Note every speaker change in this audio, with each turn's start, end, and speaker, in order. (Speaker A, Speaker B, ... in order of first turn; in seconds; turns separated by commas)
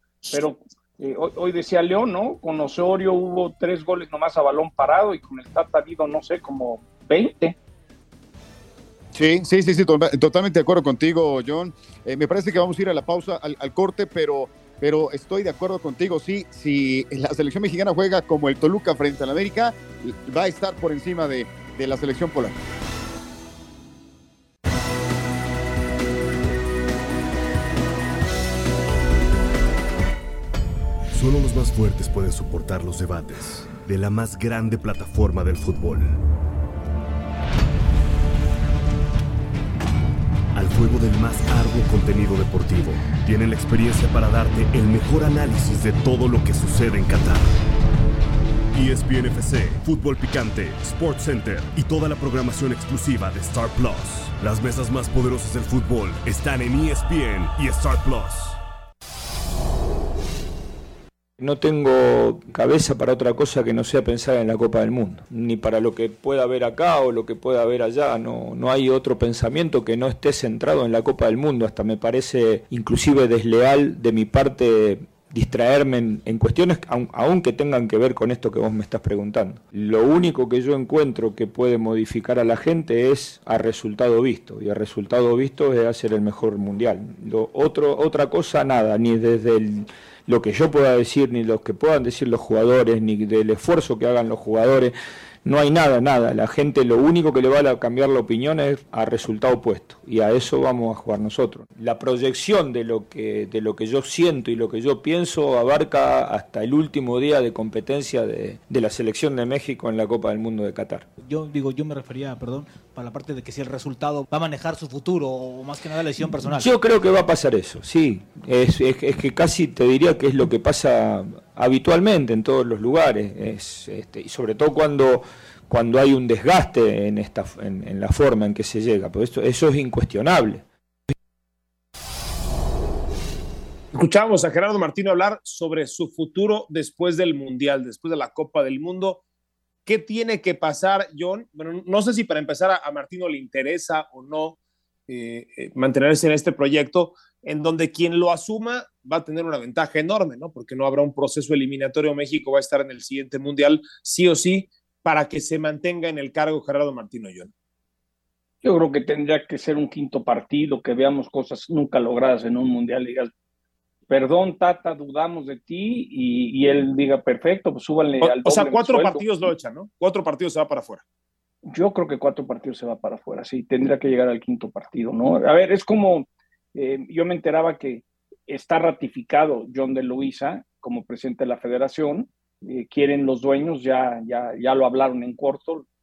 Speaker A: 0.3-7.6, Speaker B: 9.1-22.6, Speaker C: 31.1-36.2, Speaker C: 40.5-47.6, Speaker C: 48.7-58.6, Speaker D: 61.4-94.9, Speaker D: 95.4-111.1, Speaker E: 111.2-116.7, Speaker D: 116.4-130.6, Speaker F: 133.9-139.2, Speaker F: 139.8-157.5, Speaker A: 158.6-163.3, Speaker A: 164.1-169.2, Speaker F: 168.2-171.0, Speaker A: 171.7-185.8